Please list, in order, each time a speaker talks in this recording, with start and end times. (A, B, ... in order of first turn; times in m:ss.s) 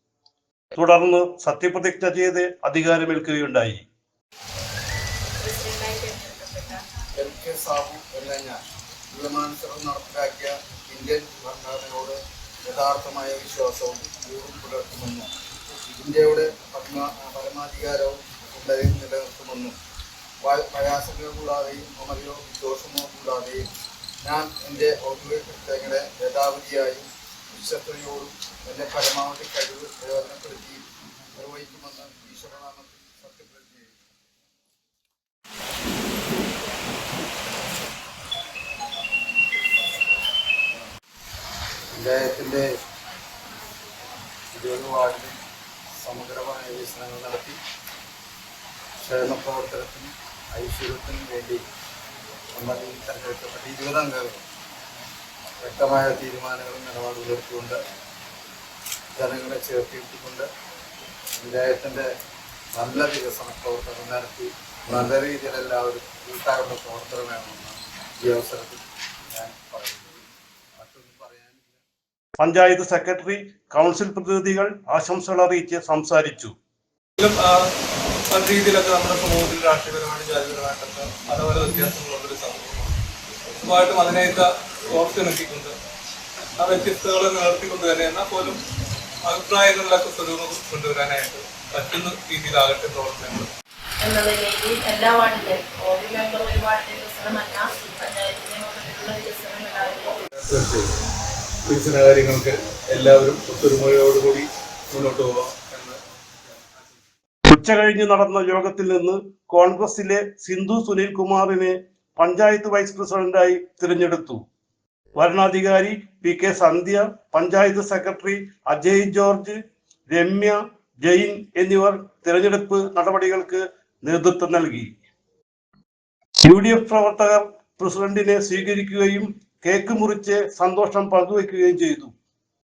0:00.7-0:03.8 A
0:05.3-0:06.8 B
0:07.2-0:08.6 C
0:09.1-0:15.3 C
0:16.0-0:19.7 C
0:20.4-0:23.6 C
0:24.2-0:30.8 C
0:31.3-0:33.9 C
0:41.9-0:42.7 C
0:44.5-0:45.4 C
0:45.9-0:47.6 C
0:49.0-0:51.6 C
0:52.5-0:54.4 C
0:55.6-0:57.8 C
0:59.2-1:00.5 C
1:01.4-1:02.1 C
1:02.7-1:08.8 C
1:09.3-1:11.8 C
1:12.4-1:16.5 A
1:17.2-1:17.8 D
1:18.3-1:23.0 D
1:23.6-1:25.8 D
1:26.6-1:28.6 D
1:29.2-1:33.5 D
1:34.0-1:40.2 B
1:41.7-1:44.4 D
1:45.0-1:46.0 D
1:47.5-1:54.4 A
1:55.1-1:59.6 A
2:00.1-2:04.9 A
2:06.4-2:12.1 A